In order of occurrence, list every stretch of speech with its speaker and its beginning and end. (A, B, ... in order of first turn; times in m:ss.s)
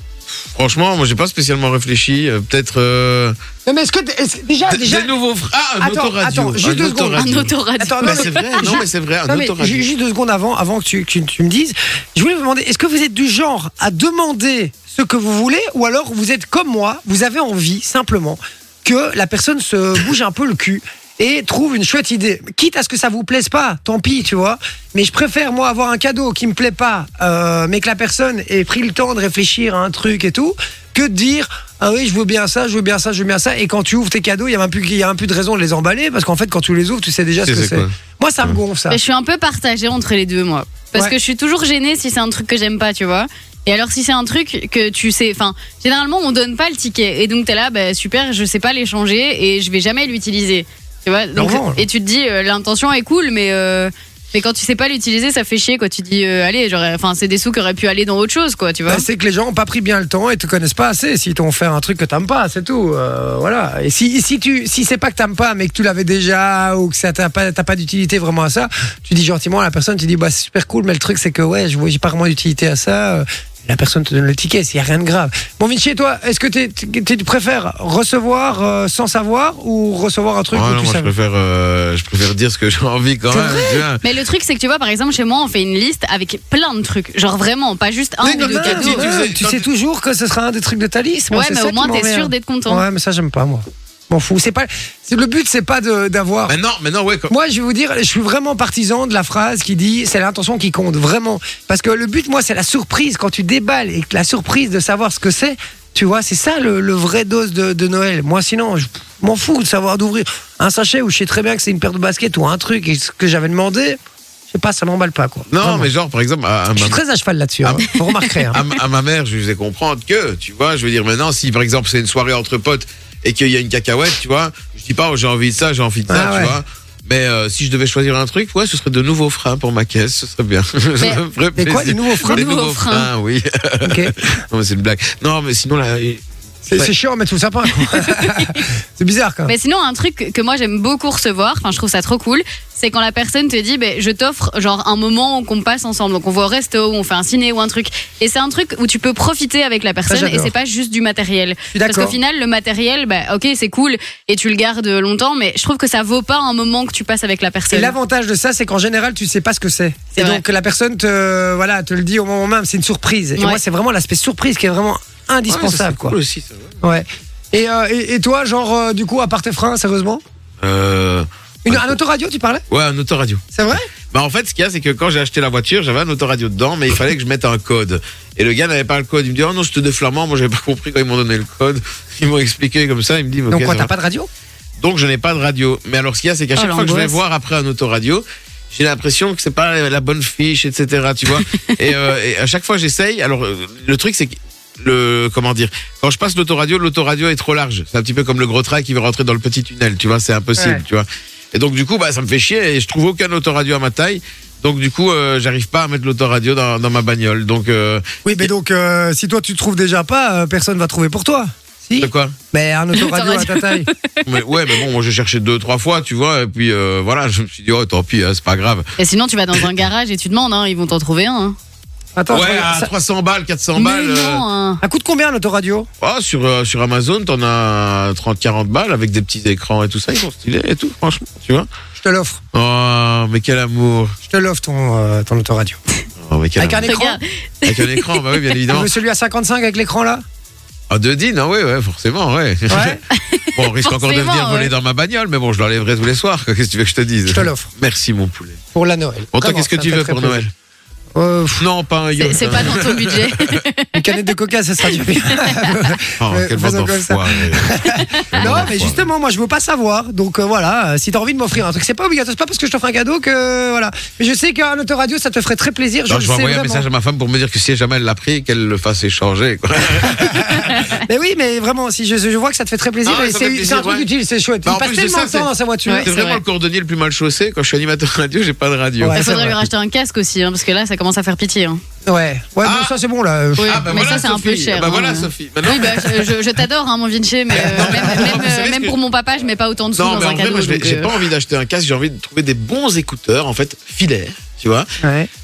0:00.5-0:03.4 A
0:03.6-0:05.1 B
0:04.7-0:09.8 A
0:05.8-0:07.2 B
0:07.2-0:08.8 C
0:07.8-0:39.0 B
0:37.4-0:38.6 A
0:38.9-0:59.0 C
0:51.4-0:51.8 B
0:58.9-1:21.1 B
1:20.5-1:24.0 A
1:23.3-1:23.8 B
1:23.5-1:29.1 C
1:28.2-1:36.6 B
1:28.5-1:29.6 A
1:31.3-1:32.8 C
1:36.5-1:37.3 A
1:37.3-1:55.9 B
1:55.5-1:57.0 A
1:56.7-1:58.6 B
1:57.6-1:57.9 A
1:58.5-2:16.9 A
2:06.1-2:06.6 B
2:11.6-2:12.4 B
2:12.2-2:13.1 C
2:13.8-2:14.1 B
2:16.7-2:19.5 B
2:18.0-2:18.6 C
2:19.5-2:37.9 C
2:30.1-2:30.5 B
2:31.7-2:32.2 B
2:37.7-2:46.2 B
2:40.1-2:40.4 C
2:45.5-2:46.7 A
2:46.8-2:50.2 B
2:50.6-2:52.0 A
2:51.6-2:52.6 B
2:52.7-2:53.4 A
2:53.5-2:53.9 B
2:54.1-3:03.9 A
3:03.5-3:04.3 B
3:04.8-3:28.2 A
3:06.6-3:07.2 C
3:20.6-3:20.8 B
3:28.2-3:33.9 B
3:32.0-3:32.3 A
3:32.9-3:34.8 C
3:34.2-3:38.9 A
3:39.0-3:41.6 C
3:42.2-3:42.9 B
3:42.3-3:44.4 A
3:43.8-3:44.8 C
3:44.8-3:45.9 B
3:46.0-3:51.7 A
3:52.0-3:52.4 B
3:52.5-3:54.2 A
3:54.2-3:55.8 B
3:56.2-3:56.9 A
3:56.6-3:57.2 B
3:56.9-3:58.2 C
3:57.6-3:58.9 A
3:58.7-4:00.2 B
4:00.9-4:03.0 A
4:02.7-4:03.0 B
4:03.1-4:04.7 C
4:03.5-4:08.6 A
4:07.3-4:07.7 B
4:08.7-4:10.4 B
4:09.3-4:10.5 A
4:11.1-4:11.6 B
4:11.6-4:13.6 A
4:12.2-4:14.2 C
4:13.9-4:26.8 B
4:14.8-4:15.7 C
4:16.2-4:17.8 A
4:17.9-4:18.5 C
4:18.3-4:19.0 A
4:26.1-4:30.8 A
4:30.1-4:30.5 B
4:30.6-4:31.0 C
4:31.0-4:36.1 B
4:33.0-4:34.1 A
4:34.6-4:35.5 A
4:35.8-4:36.4 C
4:36.0-4:39.6 A
4:39.0-4:39.5 B
4:39.2-4:41.8 C
4:42.0-4:43.9 B
4:42.6-4:42.9 A
4:43.6-4:51.1 C
4:43.6-4:46.3 A
4:47.5-4:49.0 A
4:47.8-4:48.0 B
4:50.0-4:54.9 A
4:55.0-4:55.3 B